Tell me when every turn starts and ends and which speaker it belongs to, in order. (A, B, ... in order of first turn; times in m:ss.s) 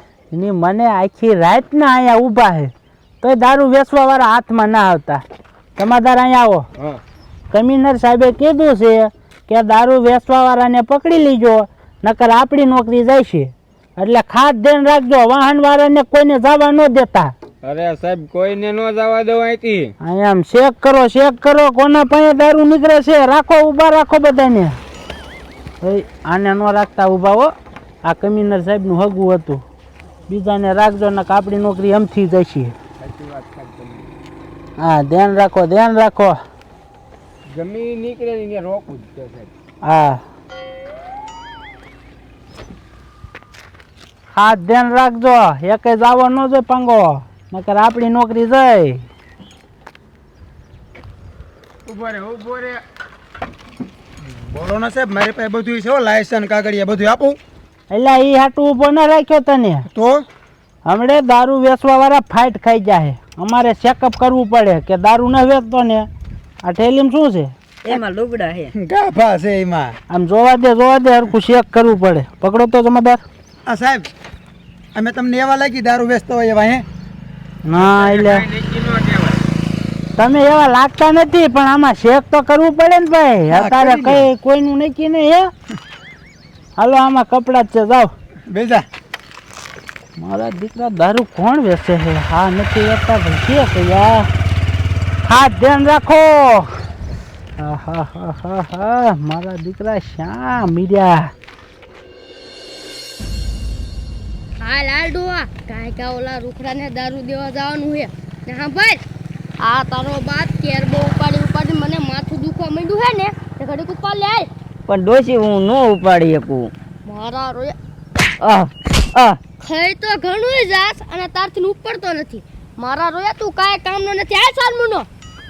0:00.3-0:05.2 A
0:05.8-0:06.7 A
0:07.5-0:17.3 A
0:17.6-0:19.9 B
0:20.0-0:24.8 A
0:25.8-0:27.5 A
0:28.0-0:29.6 A
0:30.3-0:32.7 A
0:33.0-0:34.1 B
0:34.8-0:36.4 A
0:37.5-0:39.5 B
0:39.8-0:40.2 A
0:44.3-0:49.0 A
0:51.8-0:52.8 B
0:54.2-0:57.4 C
0:57.9-0:59.9 A
0:59.9-1:00.2 C
1:00.8-1:06.1 A
1:06.6-1:07.5 A
1:07.8-1:08.7 D
1:08.7-1:10.0 C
1:10.1-1:13.2 A
1:13.6-1:14.1 C
1:14.9-1:16.8 C
1:17.6-1:18.5 A
1:17.8-1:19.4 B
1:20.2-1:25.5 A
1:23.5-1:24.3 C
1:26.8-1:28.1 A
1:28.5-1:28.8 C
1:30.2-1:34.3 A
1:35.2-1:36.7 A
1:37.6-1:41.3 A
1:44.6-1:49.0 E
1:49.6-1:54.5 E
1:54.9-1:56.7 D
1:57.0-1:57.7 E
1:58.4-1:59.4 D
1:59.6-2:05.1 E